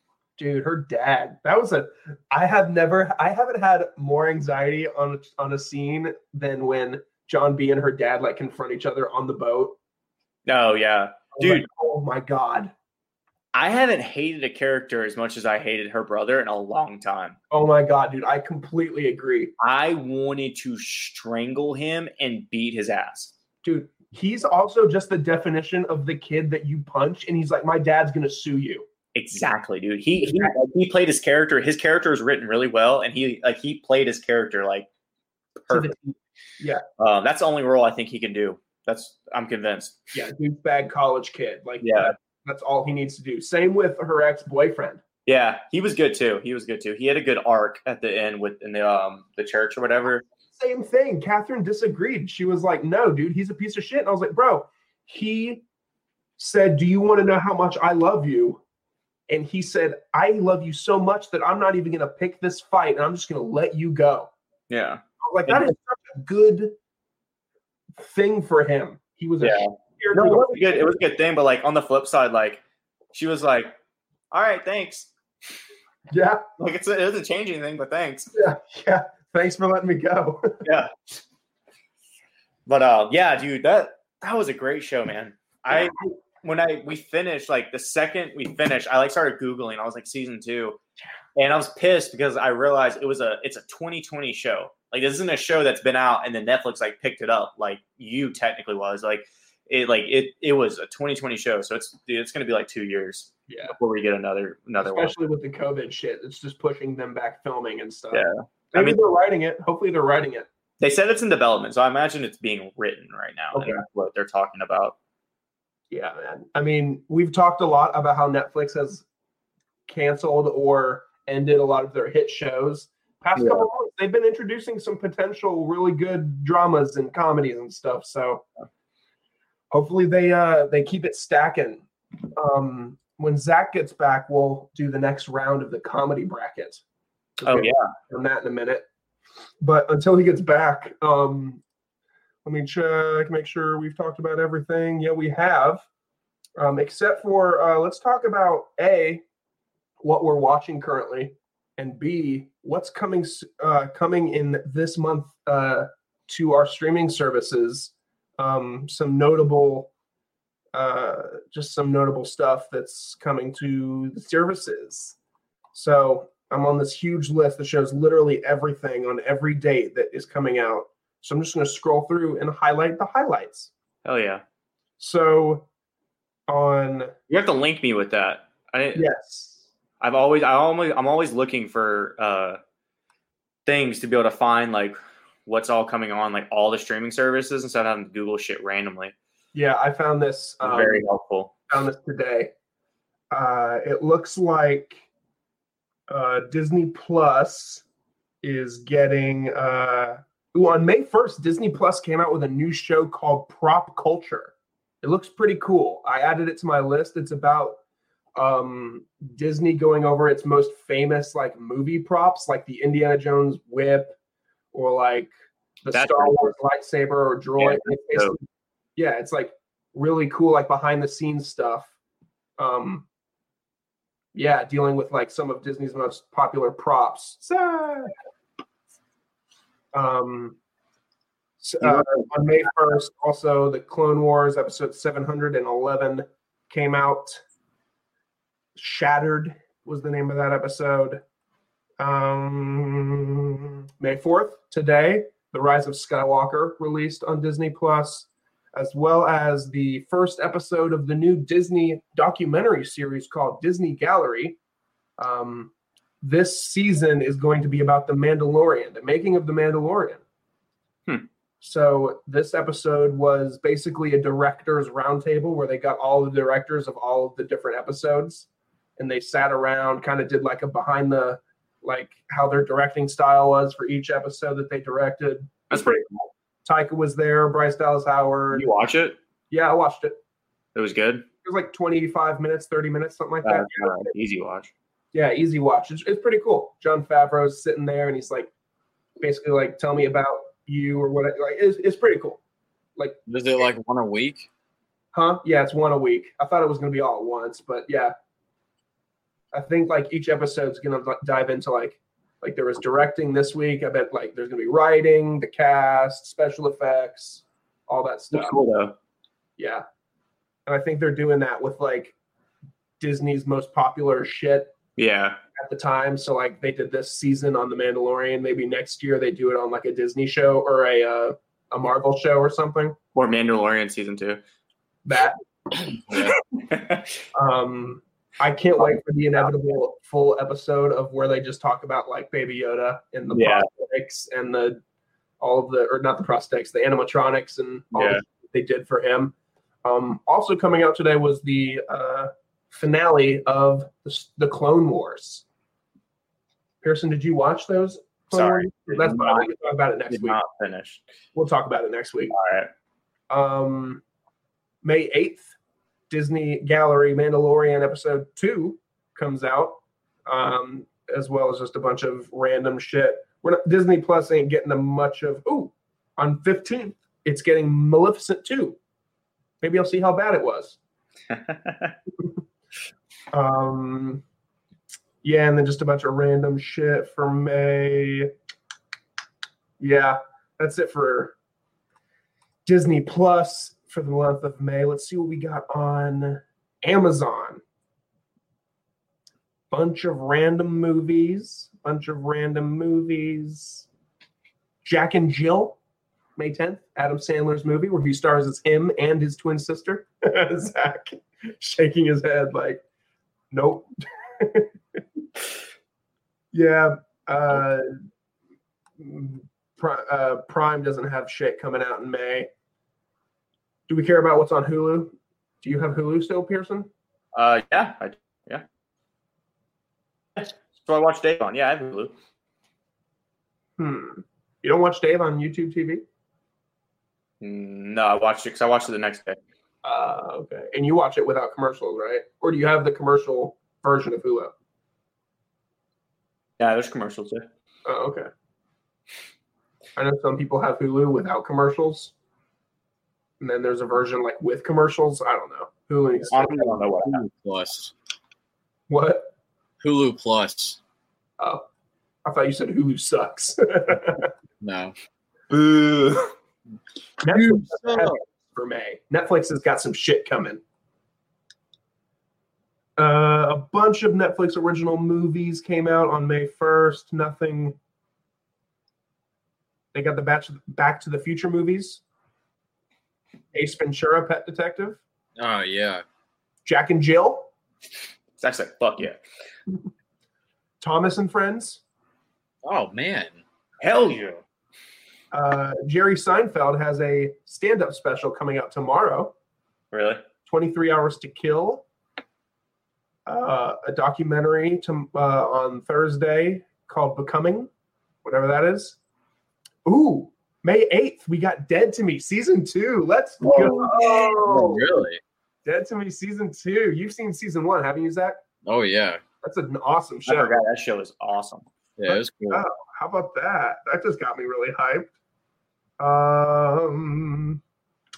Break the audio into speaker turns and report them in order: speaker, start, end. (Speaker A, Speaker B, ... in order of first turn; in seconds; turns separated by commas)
Speaker A: 0.4-9.8, Speaker B: 10.5-11.7, Speaker A: 11.3-12.7, Speaker B: 13.5-17.4, Speaker A: 17.5-19.5, Speaker B: 19.6-23.3, Speaker A: 23.6-28.9, Speaker B: 29.1-34.9, Speaker A: 30.2-30.5, Speaker B: 35.6-35.9, Speaker A: 35.7-36.8, Speaker B: 37.0-40.1, Speaker A: 40.1-45.0, Speaker B: 41.8-42.1, Speaker B: 45.3-50.2, Speaker A: 50.5-55.6, Speaker A: 56.4-58.6, Speaker A: 59.3-64.3, Speaker B: 64.7-65.7, Speaker A: 65.2-66.8, Speaker A: 68.0-70.9, Speaker B: 69.4-72.6, Speaker B: 73.1-73.7, Speaker B: 74.3-75.1, Speaker A: 76.1-76.4, Speaker B: 76.6-78.3, Speaker A: 78.3-80.6, Speaker B: 80.6-80.9, Speaker B: 82.7-90.8, Speaker A: 85.7-86.1, Speaker B: 91.4-105.2, Speaker A: 103.5-103.8, Speaker A: 104.8-110.5, Speaker B: 108.1-109.0, Speaker B: 110.8-115.0, Speaker A: 113.5-113.8, Speaker A: 115.9-119.0, Speaker A: 119.9-128.4, Speaker B: 123.4-123.7, Speaker A: 129.7-131.8, Speaker A: 132.4-136.8, Speaker A: 137.4-138.8, Speaker B: 137.5-137.9, Speaker A: 139.6-141.6, Speaker A: 142.4-145.8, Speaker A: 146.6-149.2, Speaker A: 150.0-159.9, Speaker A: 160.7-165.2, Speaker A: 165.7-173.7, Speaker B: 174.1-174.4, Speaker A: 175.0-175.7, Speaker A: 176.5-177.1, Speaker B: 177.3-179.1, Speaker A: 178.9-179.6, Speaker B: 180.0-182.6, Speaker B: 183.7-189.2, Speaker A: 189.5-191.1, Speaker B: 190.6-191.5, Speaker A: 191.7-192.5, Speaker A: 193.3-195.0, Speaker A: 196.1-197.8, Speaker A: 198.4-207.8, Speaker A: 208.4-214.2, Speaker A: 214.7-215.3, Speaker A: 215.8-218.4, Speaker B: 215.9-216.6, Speaker B: 217.6-218.4, Speaker A: 219.0-221.9, Speaker A: 222.6-223.1, Speaker A: 224.3-228.1, Speaker A: 229.9-230.6, Speaker A: 231.6-237.4, Speaker B: 231.9-232.1, Speaker A: 238.8-241.2, Speaker A: 242.0-254.6, Speaker A: 255.2-260.2, Speaker A: 261.6-276.1, Speaker B: 275.7-276.1, Speaker A: 276.6-278.7, Speaker B: 278.5-279.2, Speaker A: 279.5-280.2, Speaker B: 280.8-281.3, Speaker A: 281.4-284.1, Speaker B: 283.4-284.7, Speaker A: 285.1-288.5, Speaker A: 289.2-292.4, Speaker C: 293.3-294.5, Speaker A: 295.1-298.1, Speaker A: 299.5-308.6, Speaker B: 308.3-308.9, Speaker A: 309.6-309.8, Speaker A: 310.7-312.1, Speaker A: 313.0-314.7, Speaker B: 315.0-315.4, Speaker A: 315.6-323.0, Speaker B: 323.1-324.4, Speaker A: 325.1-325.4, Speaker C: 326.1-326.4, Speaker B: 326.7-327.1, Speaker A: 327.3-334.8, Speaker B: 333.3-333.7, Speaker A: 335.4-345.4, Speaker B: 337.9-338.2, Speaker A: 346.8-350.4, Speaker B: 348.3-349.5, Speaker B: 350.1-351.0, Speaker A: 351.4-352.4, Speaker B: 352.3-352.7, Speaker A: 353.3-354.0, Speaker A: 354.8-355.5, Speaker A: 356.1-368.8, Speaker A: 369.6-370.8, Speaker B: 371.3-371.9, Speaker A: 373.3-374.2, Speaker A: 375.2-378.3, Speaker A: 379.8-381.4, Speaker A: 382.7-387.6, Speaker A: 389.7-393.9, Speaker A: 394.8-395.8, Speaker A: 396.4-402.8, Speaker A: 403.5-403.9, Speaker A: 404.4-405.0, Speaker A: 406.5-407.9, Speaker A: 409.0-412.5, Speaker A: 413.9-416.9, Speaker B: 417.3-418.6, Speaker B: 420.4-422.1, Speaker A: 423.8-426.0, Speaker B: 427.4-429.4, Speaker A: 429.8-434.5, Speaker B: 436.6-437.5, Speaker A: 437.9-438.3, Speaker A: 440.0-442.1, Speaker A: 443.4-446.7, Speaker B: 446.3-447.2, Speaker C: 446.7-447.9, Speaker A: 448.9-449.3, Speaker C: 449.8-450.8, Speaker A: 452.2-454.3, Speaker C: 454.6-454.9, Speaker A: 457.2-460.6, Speaker C: 457.3-458.2, Speaker A: 463.0-467.8, Speaker A: 469.9-472.0, Speaker A: 473.5-475.0, Speaker C: 475.4-476.0, Speaker A: 476.6-477.5, Speaker B: 478.4-479.2, Speaker A: 480.8-481.8, Speaker C: 482.6-483.4, Speaker B: 483.8-484.4, Speaker A: 485.3-489.3, Speaker B: 489.9-490.2, Speaker A: 490.5-491.9, Speaker A: 493.3-497.7, Speaker A: 498.2-499.0, Speaker A: 499.9-504.9, Speaker C: 503.4-505.2, Speaker A: 505.6-508.4, Speaker C: 508.6-509.2, Speaker A: 509.4-510.6, Speaker B: 510.3-511.6, Speaker C: 512.0-512.6, Speaker A: 512.1-515.1, Speaker A: 516.0-517.6